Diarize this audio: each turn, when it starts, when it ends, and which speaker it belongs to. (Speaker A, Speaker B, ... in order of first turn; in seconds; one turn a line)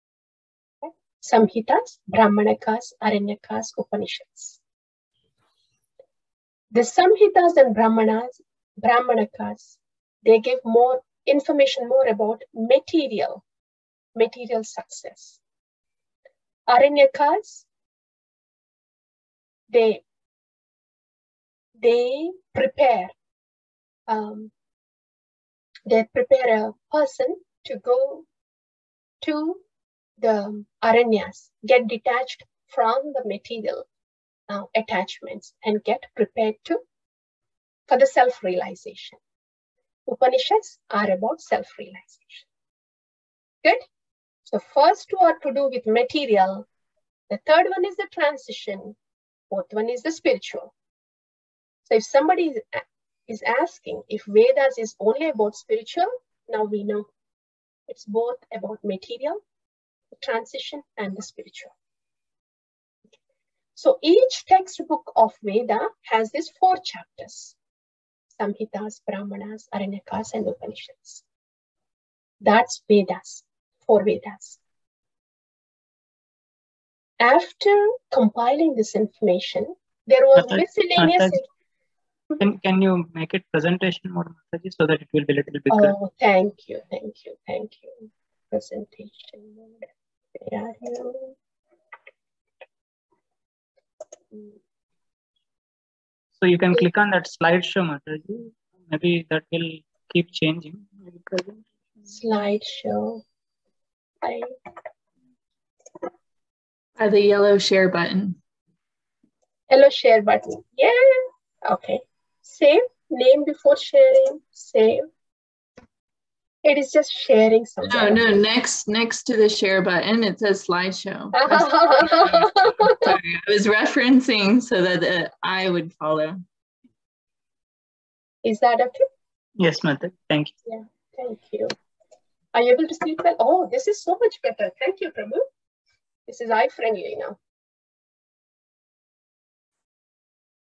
Speaker A: 0.8-4.6
Speaker A: 6.7-13.4
Speaker A: 14.1-15.4
Speaker A: 16.7-17.6
Speaker A: 19.7-20.0
Speaker A: 21.8-23.1
Speaker A: 24.1-24.5
Speaker A: 25.9-28.2
Speaker A: 29.2-29.6
Speaker A: 30.2-33.8
Speaker A: 34.5-36.8
Speaker A: 37.9-39.2
Speaker A: 40.0-42.4
Speaker A: 44.5-46.6
Speaker A: 47.3-49.0
Speaker A: 49.5-50.7
Speaker A: 51.9-57.1
Speaker A: 57.9-59.4
Speaker A: 60.2-61.7
Speaker A: 63.8-67.5
Speaker A: 68.3-71.2
Speaker A: 72.4-74.6
Speaker A: 77.2-81.4
Speaker B: 80.3-81.4
Speaker B: 82.4-85.9
Speaker A: 85.7-89.8
Speaker A: 90.3-91.3
Speaker B: 96.4-101.7
Speaker A: 102.1-103.2
Speaker A: 104.2-104.5
Speaker C: 107.0-108.4
Speaker A: 109.7-115.1
Speaker A: 116.6-118.4
Speaker C: 117.9-126.4
Speaker A: 121.3-123.1
Speaker A: 128.4-129.0
Speaker B: 129.6-130.5
Speaker A: 130.7-131.7
Speaker A: 132.5-135.4
Speaker A: 136.3-137.3